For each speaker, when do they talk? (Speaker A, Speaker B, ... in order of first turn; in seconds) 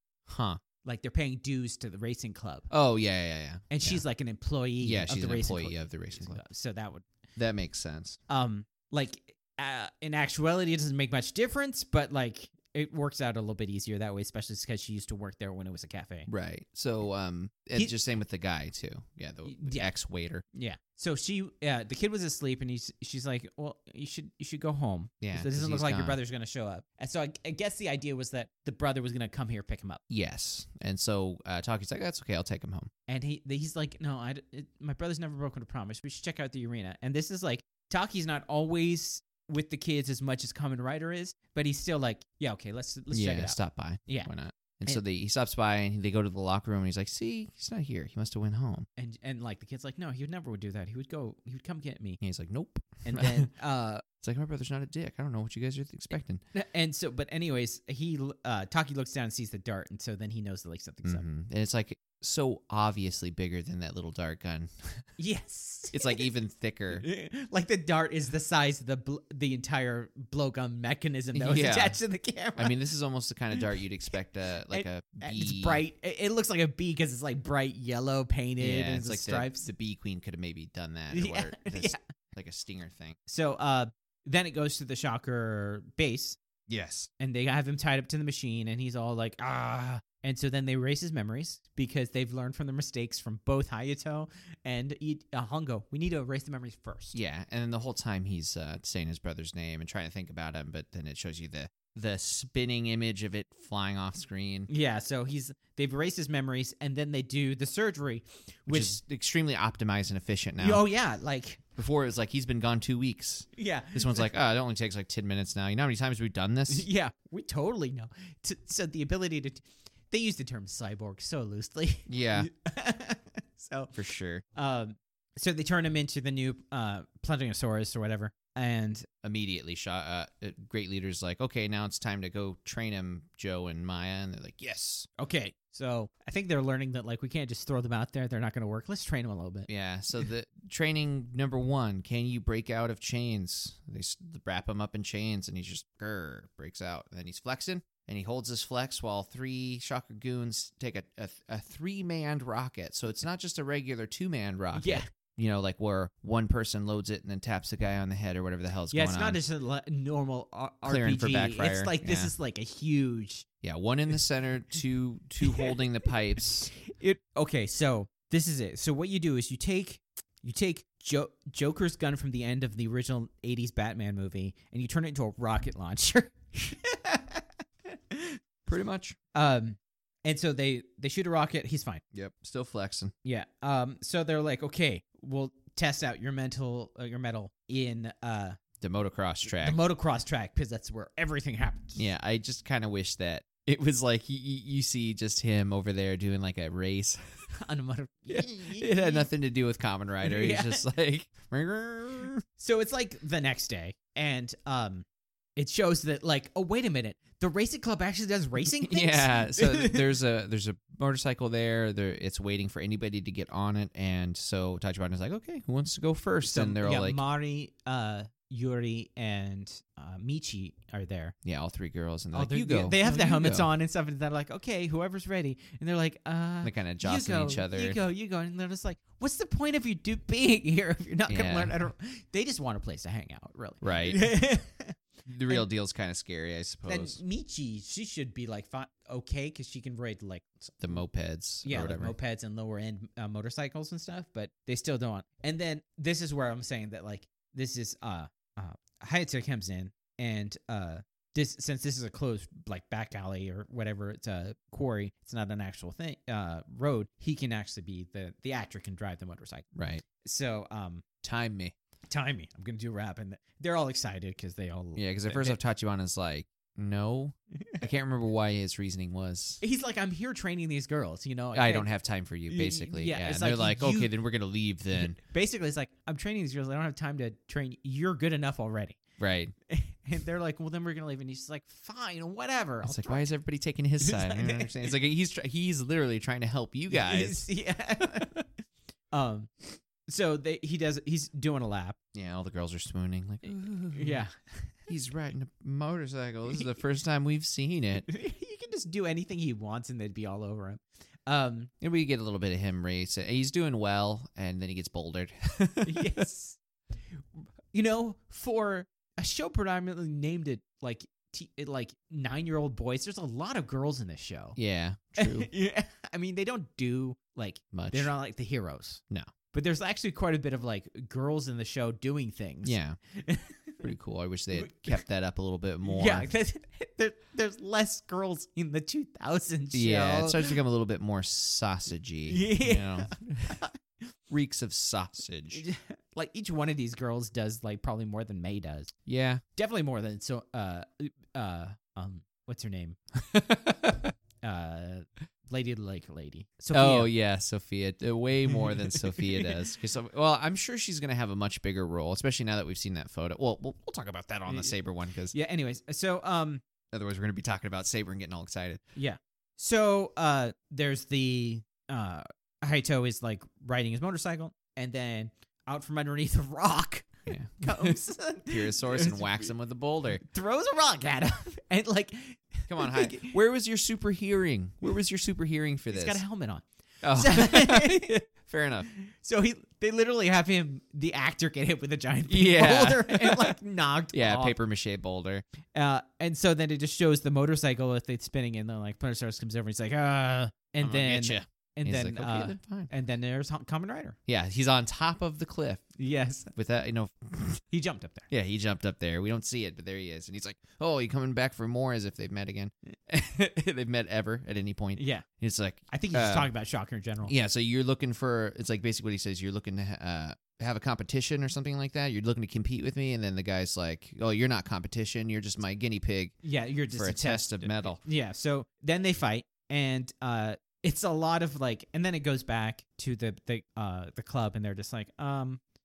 Speaker A: 0.3-0.6, 2.7-4.0, 4.8-6.4, 7.3-8.2, 16.3-20.4, 25.2-26.2, 30.1-32.9, 43.1-48.9, 52.2-53.5, 54.2-56.4, 61.0-65.0, 65.9-67.0, 71.3-72.0, 72.6-75.8, 78.6-83.2, 86.7-87.1, 97.1-104.7, 108.7-110.8, 111.8-116.9, 122.1-122.5, 123.9-124.4, 129.2-135.1, 139.7-159.4, 160.8-162.3, 163.6-166.7, 178.7-179.2, 182.1-183.1, 188.8-189.8, 191.9-197.2, 198.3-202.4, 208.6-217.2, 221.4-223.7, 226.6-228.0, 231.3-231.7, 233.8-234.2, 235.2-237.2, 240.8-242.1, 259.7-260.0, 261.2-261.7, 264.9-269.6, 271.5-275.2, 279.2-279.5, 282.8-287.4, 292.1-294.2, 294.9-298.1, 301.8-306.2, 314.6-315.5, 317.7-318.1, 322.6-323.0, 323.8-326.3, 329.7-333.2, 334.3-335.6, 339.1-339.4, 343.2-344.1, 346.7-355.3, 356.9-358.8, 367.3-370.2, 372.7-376.2, 377.0-378.9, 382.3-383.5, 384.1-385.4, 390.8-392.9, 394.3-395.8, 396.6-397.6, 398.3-406.5, 407.2-416.4, 416.9-418.0
Speaker B: 0.8-2.7, 3.7-7.1, 8.3-16.3, 19.4-19.9, 20.5-30.0, 33.1-44.3, 49.0-52.2, 53.0-54.0, 56.5-61.2, 65.2-66.2, 66.9-72.8, 74.7-79.7, 81.1-82.0, 83.2-86.4, 87.2-97.2, 104.7-109.0, 110.6-111.6, 113.5-114.3, 116.7-124.0, 124.5-129.1, 135.2-139.7, 154.7-155.1, 158.9-163.4, 165.4-165.7, 166.7-178.4, 179.3-182.0, 183.2-188.6, 189.6-192.0, 197.6-199.3, 200.2-200.8, 202.6-205.0, 205.6-210.1, 216.4-221.3, 222.3-235.6, 236.9-241.0, 241.6-259.7, 260.2-261.0, 262.1-265.6, 269.6-271.9, 272.5-274.1, 274.9-279.0, 279.7-283.3, 284.0-284.7, 286.9-288.6, 289.1-292.0, 293.9-294.7, 298.0-301.7, 305.8-306.6, 307.4-314.6, 315.2-319.0, 319.5-323.8, 324.5-325.0, 325.8-330.5, 332.3-333.8, 335.5-338.9, 339.5-343.0, 344.4-347.1, 348.5-349.5, 354.5-354.7, 355.3-356.6, 358.9-369.5, 370.2-373.4, 375.9-378.2, 378.9-384.6, 385.7-394.2, 396.0-396.5, 397.7-398.3, 404.9-405.2, 405.9-407.3, 416.4-425.6